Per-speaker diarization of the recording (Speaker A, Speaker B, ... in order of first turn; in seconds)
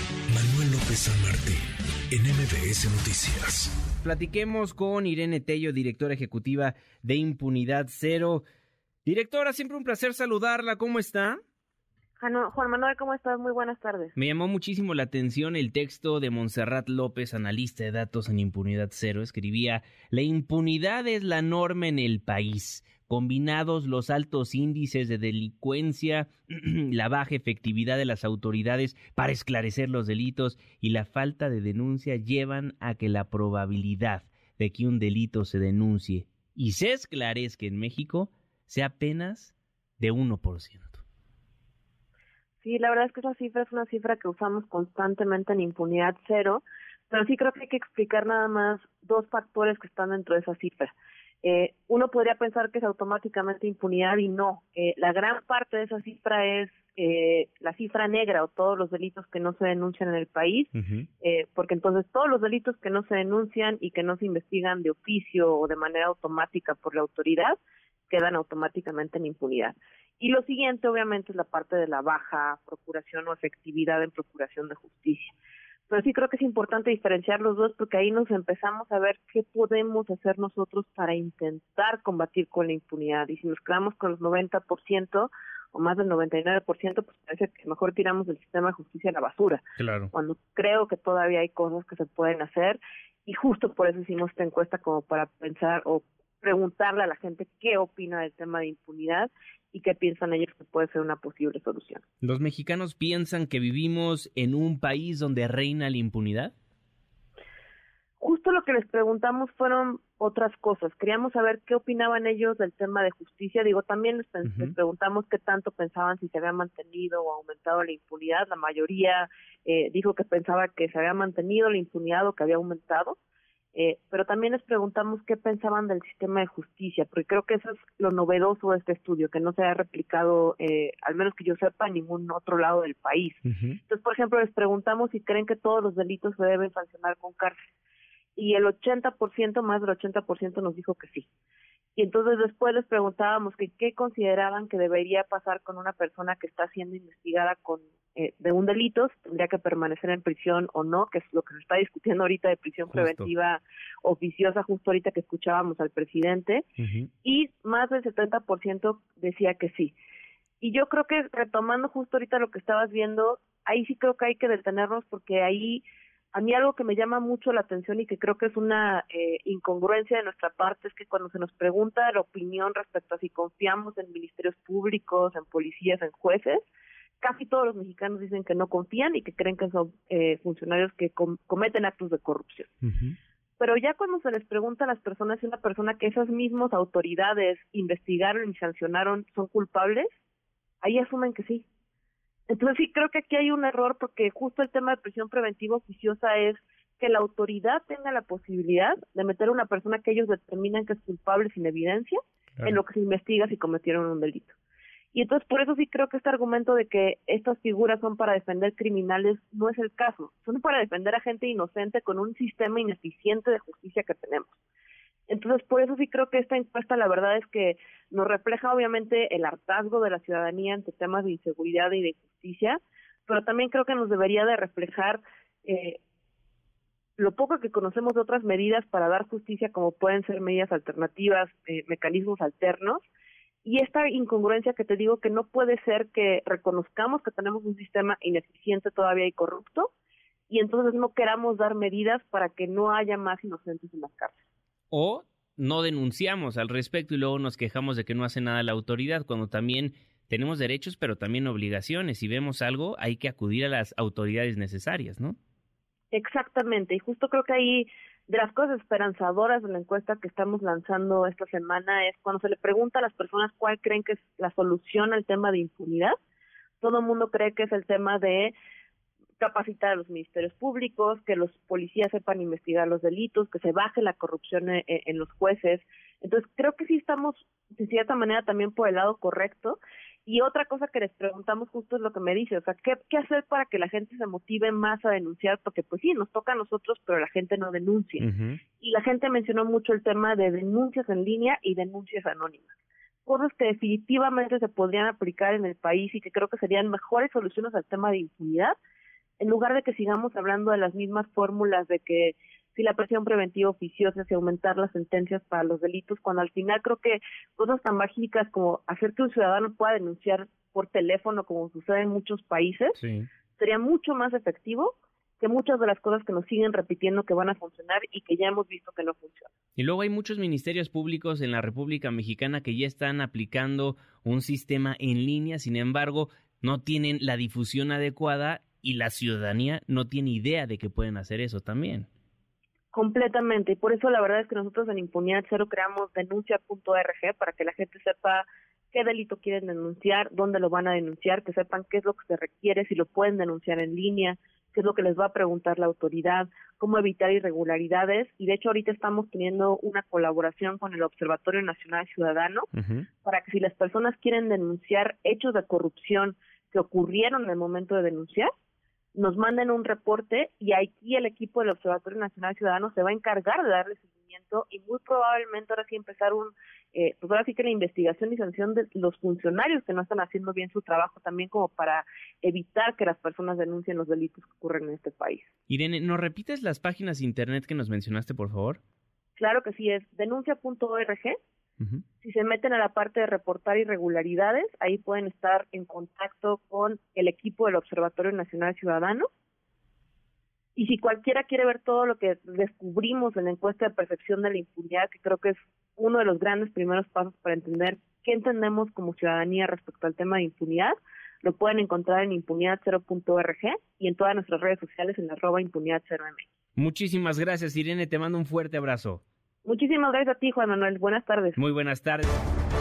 Speaker A: 0.3-1.6, 2.1-3.7
Speaker B: 4.0-8.4, 9.0-11.4, 14.2-41.0, 60.7-61.0, 89.8-90.1, 102.2-106.5, 114.4-114.7, 133.4-133.8, 152.9-153.3, 156.8-157.1, 182.8-183.2, 244.9-255.4, 288.2-288.6, 312.9-313.3, 319.8-332.1, 352.7-353.1, 375.7-378.8, 406.8-409.2, 411.6-412.3
Speaker C: 12.2-14.1, 42.6-67.6, 68.1-75.3, 75.9-102.0, 108.2-123.2, 123.7-137.6, 138.3-141.3, 141.9-156.7, 157.2-159.9, 160.6-176.7, 177.2-182.7, 183.6-190.1, 190.8-191.6, 192.5-204.5, 205.1-214.6, 215.3-226.0, 227.2-233.1, 233.6-239.9, 240.5-244.4, 256.1-266.1, 266.8-268.5, 269.4-288.2, 288.8-292.7, 293.2-298.8, 299.4-313.0, 313.6-319.5, 332.9-352.7, 353.2-358.5, 359.1-375.5, 379.4-381.4, 382.2-389.3, 390.8-406.5, 409.6-411.6